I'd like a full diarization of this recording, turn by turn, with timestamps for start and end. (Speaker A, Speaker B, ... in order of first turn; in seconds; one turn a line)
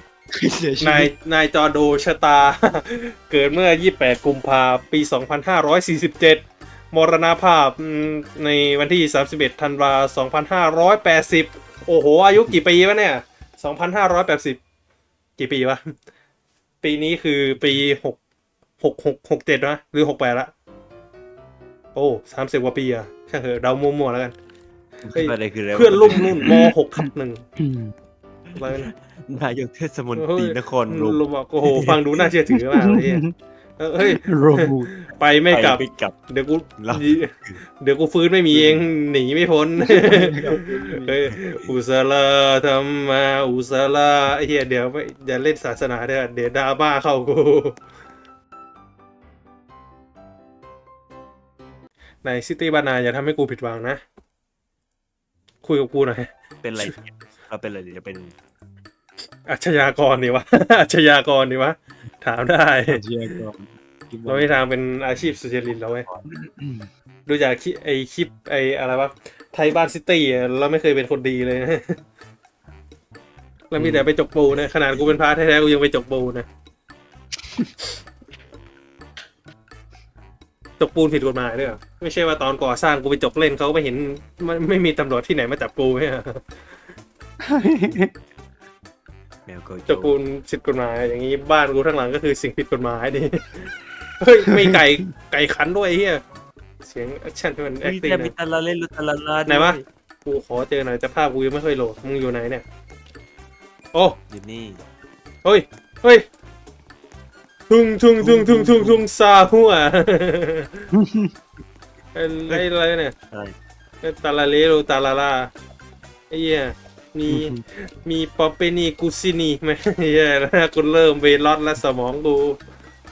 Speaker A: 0.3-1.1
Speaker B: 0.8-14.6
Speaker B: 15.4-15.9
Speaker B: 16.8-18.2
Speaker B: 18.8-20.5
Speaker B: 21.9-24.3
Speaker C: 25.1-26.5
Speaker B: 25.1-27.4
Speaker A: 27.6-27.9
Speaker C: 28.6-31.2
Speaker B: 28.6-28.9
Speaker B: 30.2-33.2
Speaker A: 32.5-33.3
Speaker B: 33.8-40.4
Speaker A: 34.1-34.9
Speaker C: 35.5-36.1
Speaker C: 36.8-37.6
Speaker A: 38.5-38.8
Speaker A: 39.8-41.2
Speaker B: 41.0-47.8
Speaker C: 41.2-41.8
Speaker B: 52.2-54.0
Speaker B: 55.6-56.3
Speaker C: 56.6-58.4
Speaker B: 59.5-63.0
Speaker A: 62.9-64.5
Speaker B: 64.3-66.1
Speaker A: 66.5-66.9
Speaker B: 67.3-72.0
Speaker B: 73.7-76.5
Speaker A: 73.8-74.1
Speaker B: 80.8-86.4
Speaker A: 87.5-88.1
Speaker C: 89.5-90.2
Speaker B: 89.9-96.2
Speaker B: 96.8-98.3
Speaker C: 97.8-99.8
Speaker B: 99.5-102.7
Speaker C: 104.3-104.8
Speaker B: 105.4-106.2
Speaker B: 107.7-110.8
Speaker A: 108.2-109.0
Speaker A: 110.9-111.3
Speaker B: 112.2-113.1
Speaker C: 113.3-113.6
Speaker B: 114.0-115.5
Speaker B: 116.3-122.6
Speaker A: 117.3-117.6